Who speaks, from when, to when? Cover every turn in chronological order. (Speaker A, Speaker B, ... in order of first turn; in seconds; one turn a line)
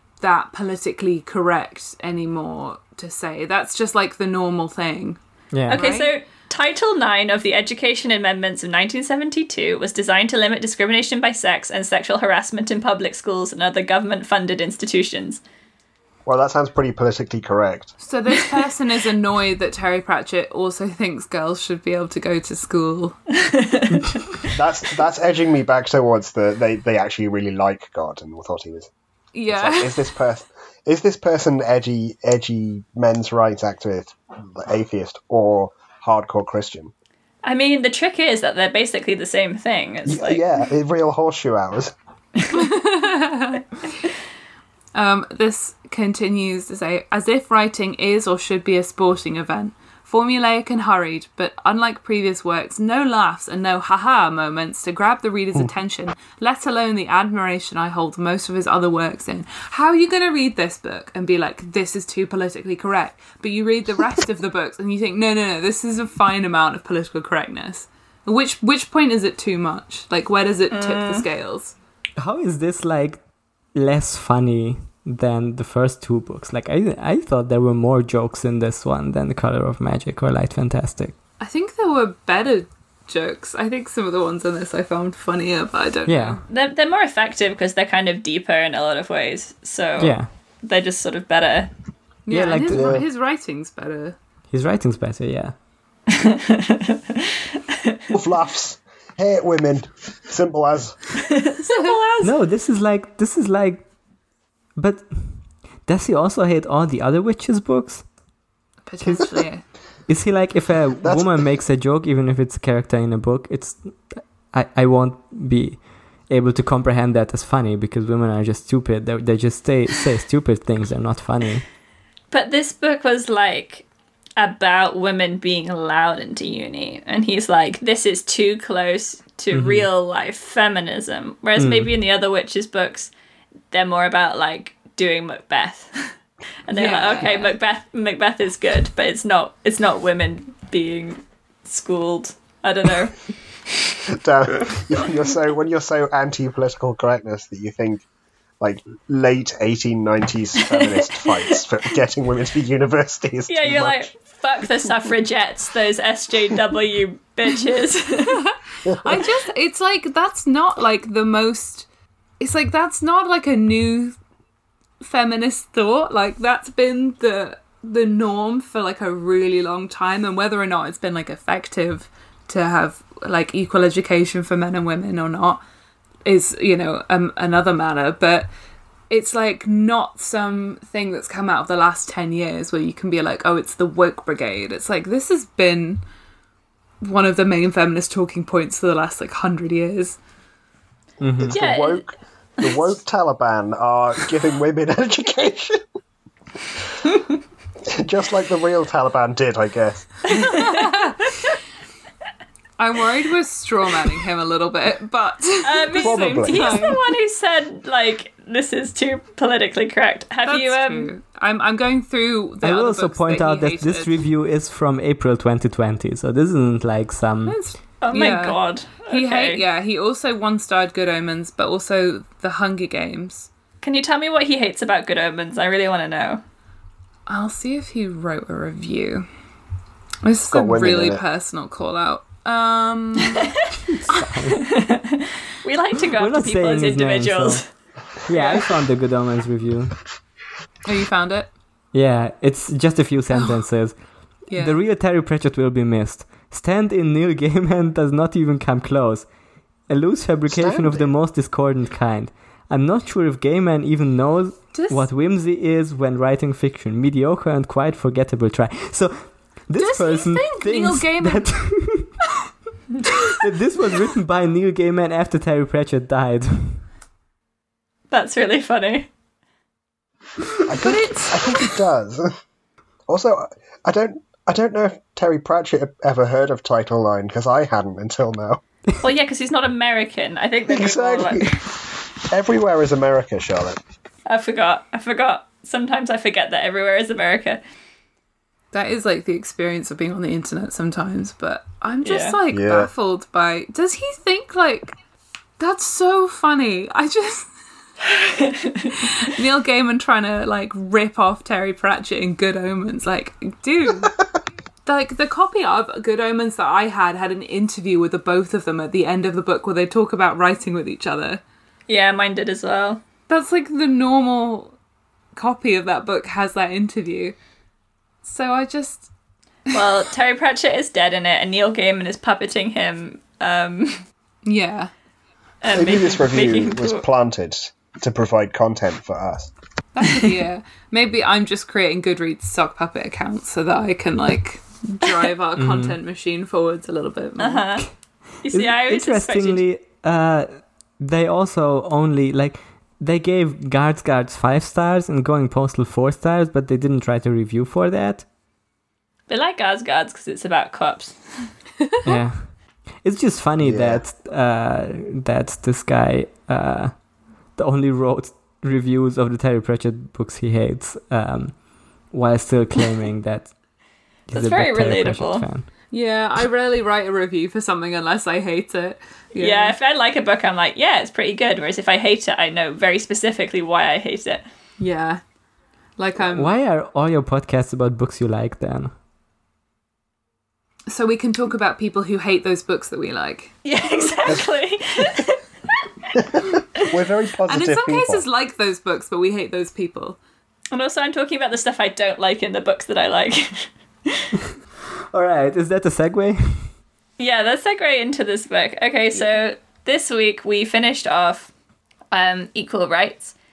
Speaker A: 0.2-6.1
Speaker B: 5.5-5.8
Speaker C: 5.7-15.4
Speaker D: 16.2-17.9
Speaker A: 18.0-23.1
Speaker C: 23.4-24.4
Speaker D: 24.5-28.9
Speaker A: 29.3-30.1
Speaker D: 29.5-36.9
Speaker C: 37.4-40.4
Speaker D: 40.0-41.9
Speaker C: 42.4-42.6
Speaker A: 42.5-43.7
Speaker A: 44.9-71.7
Speaker C: 70.7-71.2
Speaker B: 72.2-73.2
Speaker B: 73.7-81.1
Speaker A: 81.4-86.4
Speaker B: 86.0-86.4
Speaker C: 86.5-91.7
Speaker B: 90.0-90.3
Speaker A: 92.2-94.2
Speaker B: 92.3-93.0
Speaker D: 92.7-93.0
Speaker B: 94.5-95.5
Speaker C: 96.1-98.0
Speaker D: 98.1-101.0
Speaker C: 101.3-102.3
Speaker B: 102.2-103.8
Speaker B: 104.8-108.0
Speaker A: 108.8-109.6
Speaker B: 109.0-109.3
Speaker B: 110.1-121.6
Speaker D: 111.0-111.4
Speaker C: 122.3-123.8
Speaker C: 124.4-133.1
Speaker B: 129.5-129.9
Speaker B: 131.6-131.9
Speaker C: 133.7-136.1
Speaker C: 136.7-143.2
Speaker A: 136.7-137.5
Speaker D: 144.1-148.0
Speaker D: 148.6-154.1
Speaker C: 150.8-151.4
Speaker C: 153.5-158.4
Speaker A: 158.5-161.9
Speaker A: 162.4-164.2
Speaker A: 165.0-175.6
Speaker A: 176.2-178.5
Speaker A: 179.1-186.0
Speaker A: 187.0-190.2
Speaker B: 191.2-191.6
Speaker D: 191.4-195.8
Speaker C: 191.5-192.0
Speaker D: 197.9-200.3
Speaker C: 200.3-201.0
Speaker A: 200.5-201.2
Speaker A: 202.8-207.0
Speaker C: 205.6-211.1
Speaker D: 206.0-206.9
Speaker A: 210.4-214.2
Speaker B: 212.6-217.6
Speaker A: 217.4-223.5
Speaker C: 218.0-219.6
Speaker C: 223.8-226.4
Speaker A: 227.3-229.3
Speaker A: 230.2-233.5
Speaker D: 230.5-231.2
Speaker B: 233.9-234.7
Speaker C: 234.6-237.6
Speaker B: 236.2-237.6
Speaker B: 238.2-239.9
Speaker C: 238.3-238.7
Speaker A: 240.8-241.5
Speaker B: 241.9-244.0
Speaker A: 244.5-244.8
Speaker B: 244.5-249.3
Speaker B: 249.9-262.2
Speaker D: 250.5-251.1
Speaker A: 254.7-255.1
Speaker A: 259.8-261.6
Speaker B: 263.3-266.8
Speaker C: 268.1-269.1
Speaker D: 270.6-272.3
Speaker A: 270.7-271.6
Speaker D: 273.1-278.6
Speaker C: 279.0-281.6
Speaker D: 280.7-283.8
Speaker C: 284.2-287.6
Speaker A: 288.7-294.9
Speaker C: 292.0-292.4
Speaker D: 292.5-292.9
Speaker A: 295.6-297.5
Speaker C: 298.1-299.1
Speaker A: 298.9-304.1
Speaker A: 304.8-311.4
Speaker C: 311.9-313.0
Speaker A: 313.3-314.7
Speaker A: 315.3-317.4
Speaker A: 318.2-319.1
Speaker C: 319.7-324.0
Speaker A: 324.4-324.9
Speaker C: 325.6-327.0
Speaker D: 325.7-329.5
Speaker A: 329.9-337.6
Speaker B: 335.6-336.0
Speaker C: 337.4-337.9
Speaker C: 338.4-339.6
Speaker B: 338.5-348.2
Speaker C: 349.3-351.2
Speaker B: 352.0-352.5
Speaker B: 353.0-356.9
Speaker D: 353.6-354.0
Speaker B: 357.6-361.6
Speaker B: 362.1-363.5
Speaker B: 364.3-365.7
Speaker C: 364.3-365.5
Speaker A: 365.9-369.7
Speaker C: 369.4-374.4
Speaker A: 374.8-375.2
Speaker A: 376.0-376.5
Speaker B: 376.3-378.9
Speaker A: 380.9-383.5
Speaker C: 383.6-385.4
Speaker D: 386.1-388.2
Speaker A: 387.5-390.2
Speaker C: 390.7-394.3
Speaker B: 395.1-396.7
Speaker C: 397.2-401.5
Speaker C: 402.1-403.3